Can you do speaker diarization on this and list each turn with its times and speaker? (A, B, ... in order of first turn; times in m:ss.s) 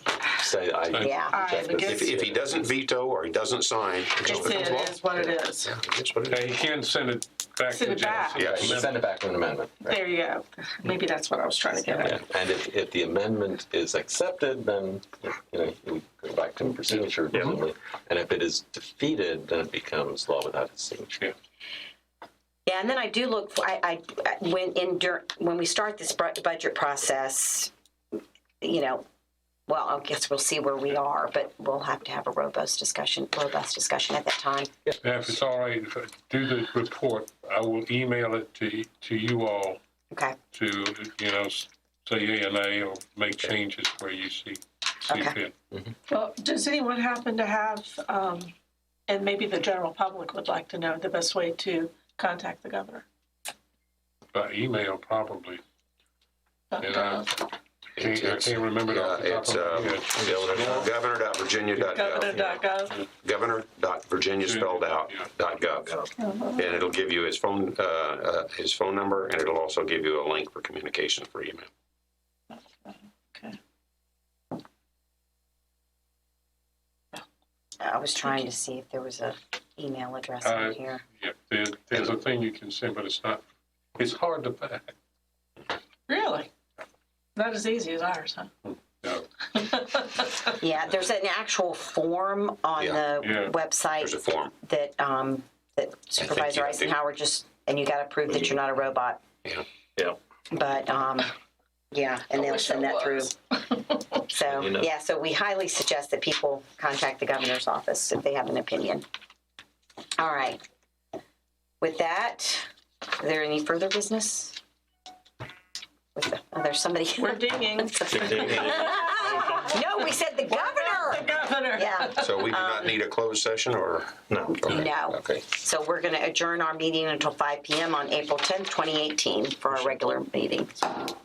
0:00.2-0:02.7 A
0:01.0-0:01.4 B
0:01.3-0:02.1 C
0:01.8-0:06.5 D
0:04.2-0:05.7 C
0:04.3-0:04.7 A
0:06.3-0:09.0 E
0:07.7-0:08.4 C
0:08.4-0:08.8 D
0:08.4-0:10.0 A
0:09.8-0:12.2 C
0:12.0-0:21.2 A
0:22.7-0:27.7 B
0:28.6-0:29.0 B
0:29.7-0:34.7 B
0:35.0-0:39.8 E
0:40.1-0:40.4 B
0:40.5-0:45.5 E
0:45.1-0:45.4 B
0:46.1-0:48.5 C
0:49.1-0:53.0 C
0:54.3-0:55.6 E
0:56.7-0:57.3 C
0:56.8-0:57.4 E
0:58.0-1:00.9 E
0:58.0-1:02.6 D
1:01.8-1:02.1 E
1:01.9-1:03.0 C
1:03.2-1:06.0 D
1:04.4-1:05.3 E
1:06.2-1:06.7 C
1:06.6-1:11.7 D
1:12.5-1:13.6 C
1:17.8-1:21.0 B
1:20.4-1:23.4 E
1:24.0-1:24.9 E
1:26.1-1:26.5 C
1:27.4-1:28.5 C
1:28.7-1:29.3 E
1:29.5-1:30.5 C
1:30.5-1:39.2 B
1:32.8-1:33.1 D
1:33.2-1:33.5 E
1:34.0-1:34.5 D
1:36.2-1:36.9 D
1:40.5-1:41.3 B
1:41.9-1:43.3 B
1:42.4-1:44.2 C
1:44.3-1:49.0 B
1:44.4-1:44.9 A
1:50.2-1:50.6 B
1:51.8-1:52.7 B
1:53.2-1:54.6 B
1:56.2-2:02.9 B
1:57.2-1:59.8 C
1:58.2-1:58.7 A
2:00.5-2:02.5 C
2:02.2-2:04.9 D
2:04.4-2:05.4 A
2:04.7-2:10.8 B